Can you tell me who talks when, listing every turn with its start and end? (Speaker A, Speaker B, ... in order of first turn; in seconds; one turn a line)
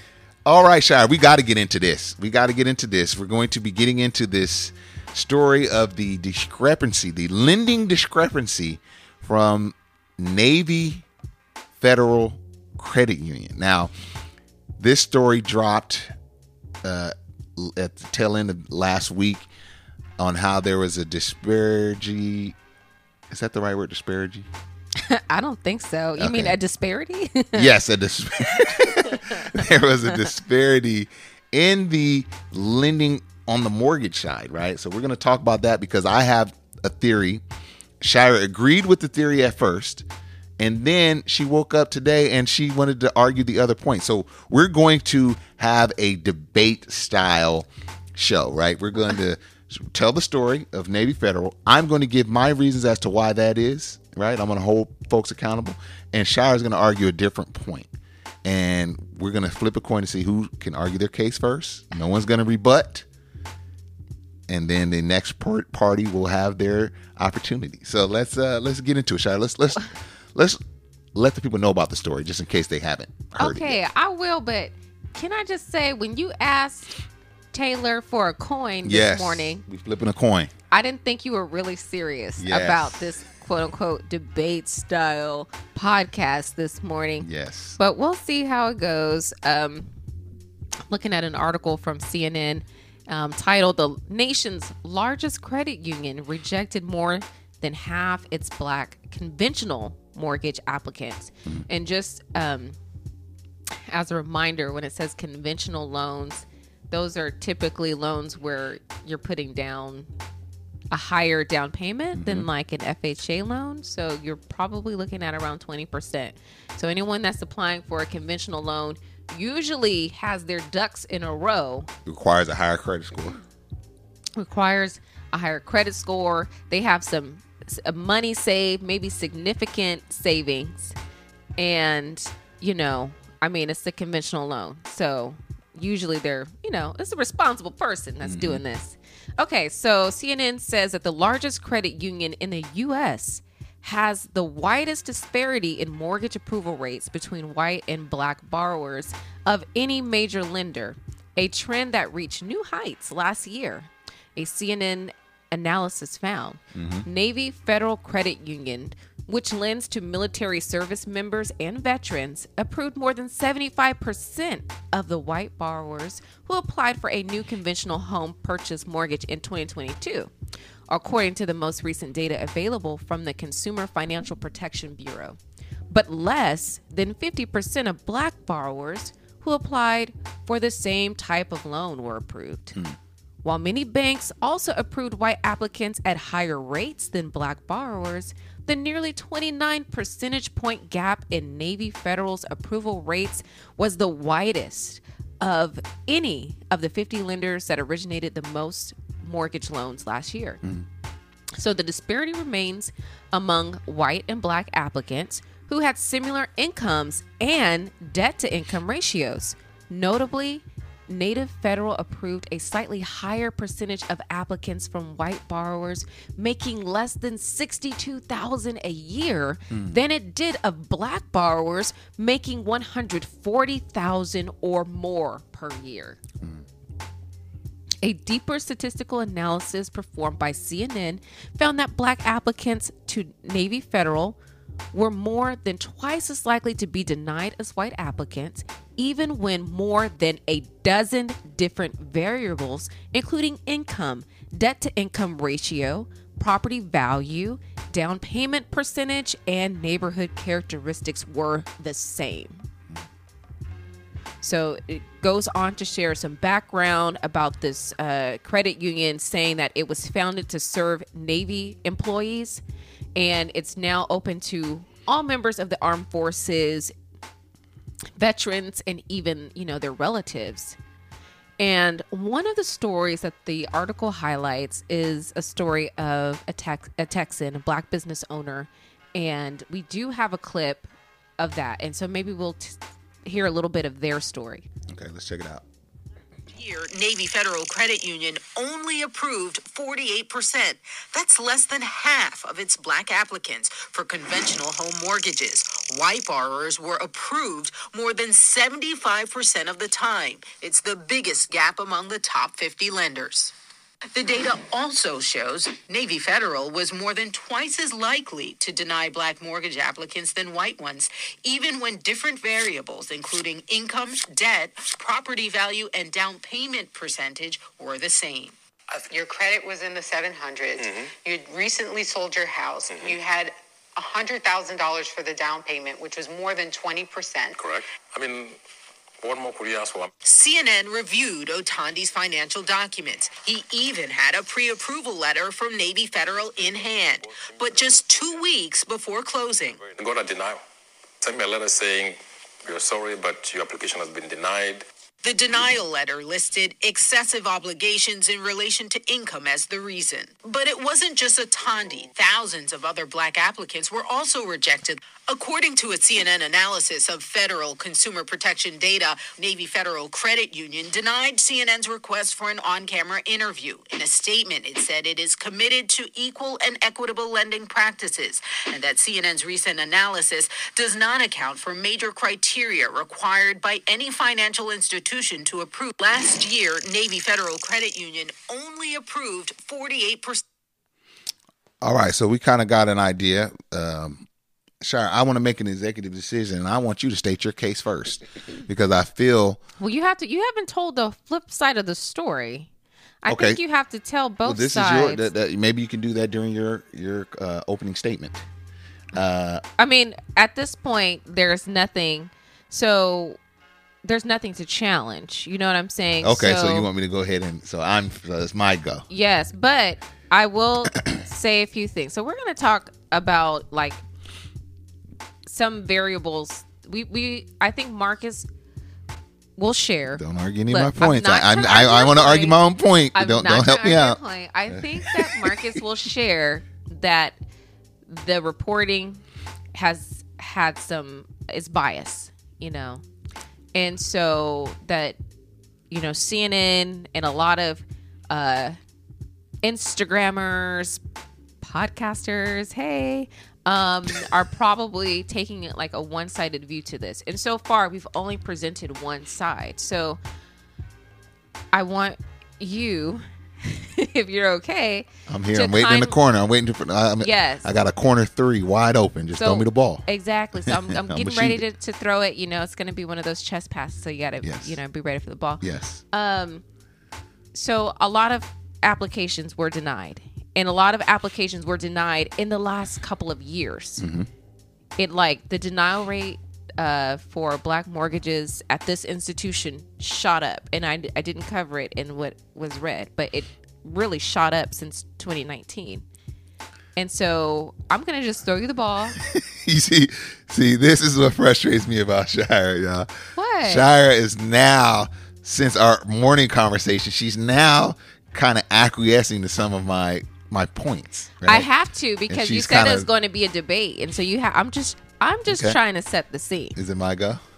Speaker A: 0.5-11.1
Speaker A: 11.8-13.9
Speaker A: 14.8-16.1
Speaker A: 16.8-19.5
Speaker A: 20.2-22.6
Speaker A: 23.3-24.5
Speaker B: 25.0-27.7
Speaker A: 26.2-26.6
Speaker A: 27.5-37.4
Speaker B: 28.6-29.5
Speaker A: 38.0-40.1
Speaker A: 40.6-57.9
Speaker A: 58.4-63.0
Speaker A: 64.5-70.6
Speaker A: 71.2-73.8
Speaker B: 73.4-77.0
Speaker B: 77.5-79.6
Speaker A: 78.8-80.5
Speaker B: 80.7-89.9
Speaker A: 82.4-83.1
Speaker A: 87.2-87.8
Speaker B: 90.9-102.8
Speaker B: 103.9-110.1
Speaker B: 110.9-121.9
Speaker A: 112.2-112.5
Speaker A: 122.1-123.4
Speaker B: 124.4-130.9
Speaker B: 131.6-170.3
Speaker A: 138.2-138.6
Speaker A: 156.8-157.1
Speaker B: 170.9-175.4
Speaker B: 175.9-182.8
Speaker B: 183.4-200.6
Speaker B: 201.5-226.2
Speaker A: 219.7-220.0
Speaker B: 228.0-234.4
Speaker B: 234.9-252.7
Speaker B: 254.4-262.6
Speaker B: 263.2-266.9
Speaker B: 268.2-270.8
Speaker B: 271.6-284.7
Speaker A: 284.9-285.6
Speaker C: 286.5-303.5
Speaker C: 304.1-318.6
Speaker D: 319.1-327.6
Speaker E: 320.8-321.1
Speaker E: 322.9-323.2
Speaker E: 327.6-328.6
Speaker E: 329.2-330.1
Speaker C: 330.2-339.8
Speaker E: 339.8-340.6
Speaker E: 341.2-344.8
Speaker C: 345.2-380.4
Speaker A: 381.8-384.2
Speaker A: 384.8-389.6
Speaker B: 389.8-392.7
Speaker B: 393.2-395.3
Speaker A: 393.3-393.6
Speaker A: 394.4-398.4
Speaker A: 399.1-399.6
Speaker B: 399.8-403.4
Speaker B: 404.0-406.9
Speaker A: 406.2-409.1
Speaker B: 409.1-414.0
Speaker B: 415.5-418.5
Speaker B: 419.6-422.6
Speaker A: 420.1-424.2
Speaker B: 423.1-427.4
Speaker A: 424.7-425.6
Speaker B: 428.1-429.2
Speaker B: 429.7-433.0
Speaker B: 433.8-435.2
Speaker B: 435.9-438.8
Speaker B: 439.6-441.0
Speaker B: 441.6-450.2
Speaker B: 451.7-456.2
Speaker A: 455.3-460.1
Speaker B: 457.2-457.7
Speaker B: 459.4-466.6
Speaker A: 460.6-461.6
Speaker A: 464.4-464.8
Speaker A: 465.6-466.0
Speaker B: 467.5-474.0
Speaker A: 474.0-474.3
Speaker B: 475.0-486.1
Speaker B: 487.0-489.2
Speaker A: 489.2-493.1
Speaker B: 493.4-493.9
Speaker A: 493.6-501.7
Speaker B: 501.4-506.8
Speaker A: 502.3-503.1
Speaker A: 505.5-505.8
Speaker A: 506.8-507.4